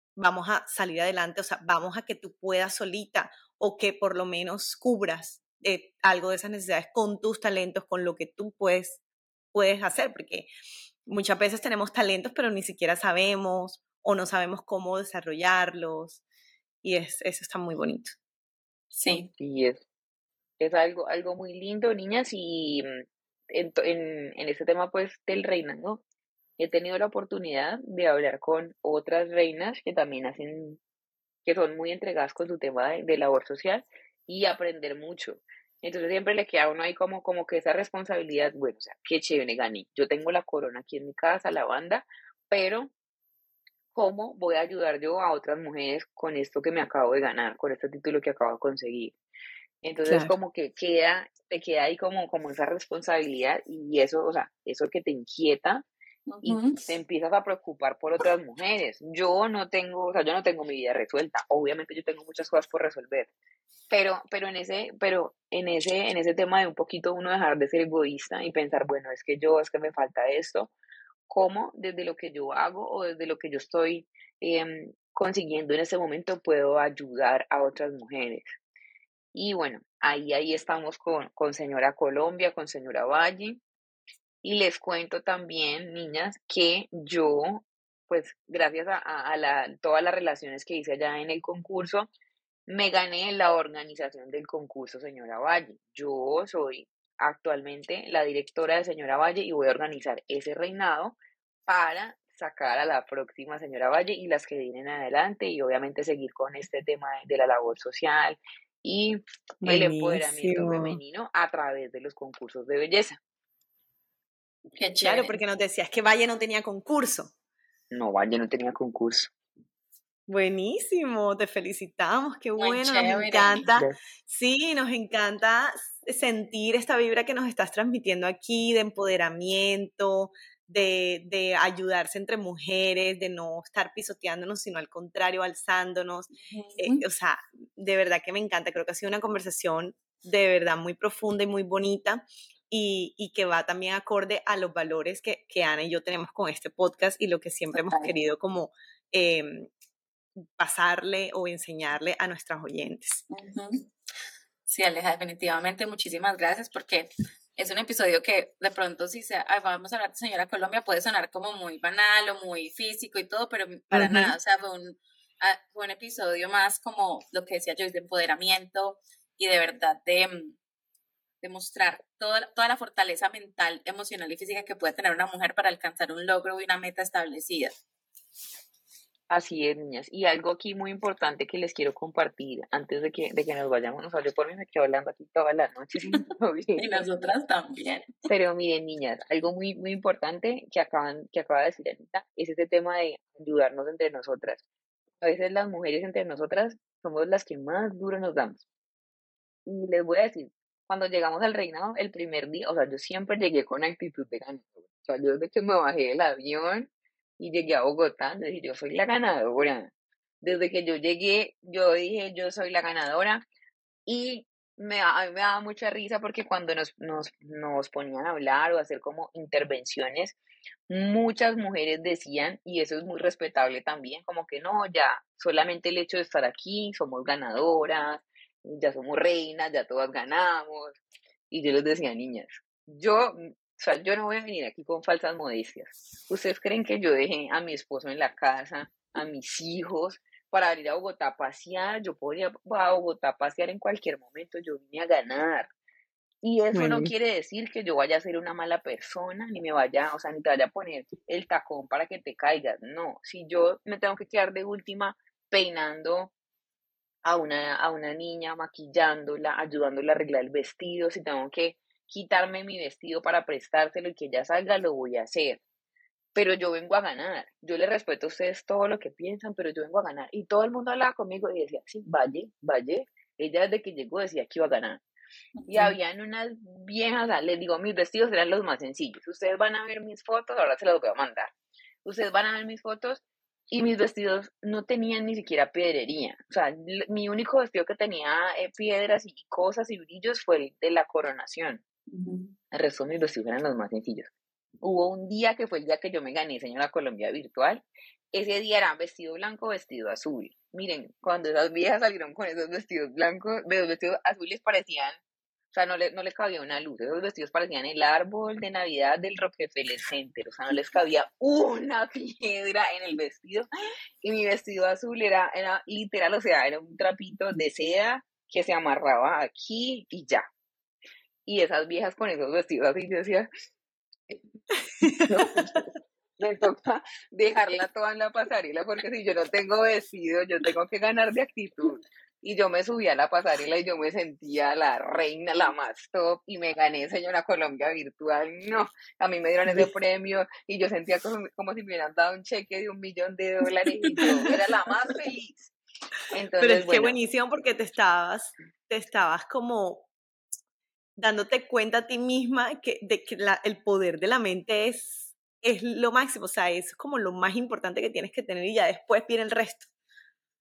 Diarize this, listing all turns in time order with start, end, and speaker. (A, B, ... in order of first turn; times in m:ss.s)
0:00.2-0:09.0 A
0:09.5-0:10.5 A
0:11.0-0:16.2 A
0:16.8-0:18.2 A
0:18.9-0:19.3 B
0:19.4-0:19.8 C
0:20.6-0:26.0 C
0:26.6-0:30.8 C
0:31.4-0:42.9 C
0:43.9-0:49.2 C
0:49.8-0:55.8 C
0:50.1-0:50.3 A
0:56.3-0:56.8 B
0:56.4-1:03.3 C
1:03.9-1:10.7 C
1:11.3-1:18.6 C
1:19.3-1:23.6 C
1:24.4-1:32.1 C
1:32.7-1:53.2 C
1:49.6-1:51.0 A
1:54.7-1:55.4 B
1:55.0-1:57.3 A
1:57.9-1:59.3 C
2:00.3-2:29.7 A
2:02.6-2:03.7 B
2:16.4-2:17.0 B
2:27.7-2:28.1 B
2:30.4-2:33.2 A
2:33.3-2:33.9 B
2:34.7-2:50.6 B
2:43.9-2:44.3 A
2:51.4-2:57.7 B
2:59.3-3:07.0 C
3:06.8-3:08.1 B
3:08.3-3:14.6 C
3:15.2-3:18.6 C
3:19.6-3:33.4 C
3:34.0-3:40.4 C
3:40.9-4:05.7 C
4:06.4-4:16.3 C
4:06.7-4:07.1 A
4:17.2-4:25.6 C
4:26.3-4:35.0 C
4:35.6-4:36.0 B
4:35.7-4:41.5 C
4:42.0-4:51.8 C
4:52.1-4:52.5 B
4:52.7-4:54.3 C
4:54.8-5:05.2 C
5:05.7-5:13.7 C
5:14.2-5:20.4 C
5:21.4-5:23.5 C
5:25.0-5:25.8 A
5:25.2-5:45.7 C
5:44.2-5:44.5 B
5:46.3-5:47.2 C
5:46.6-5:50.1 A
5:51.2-5:59.9 A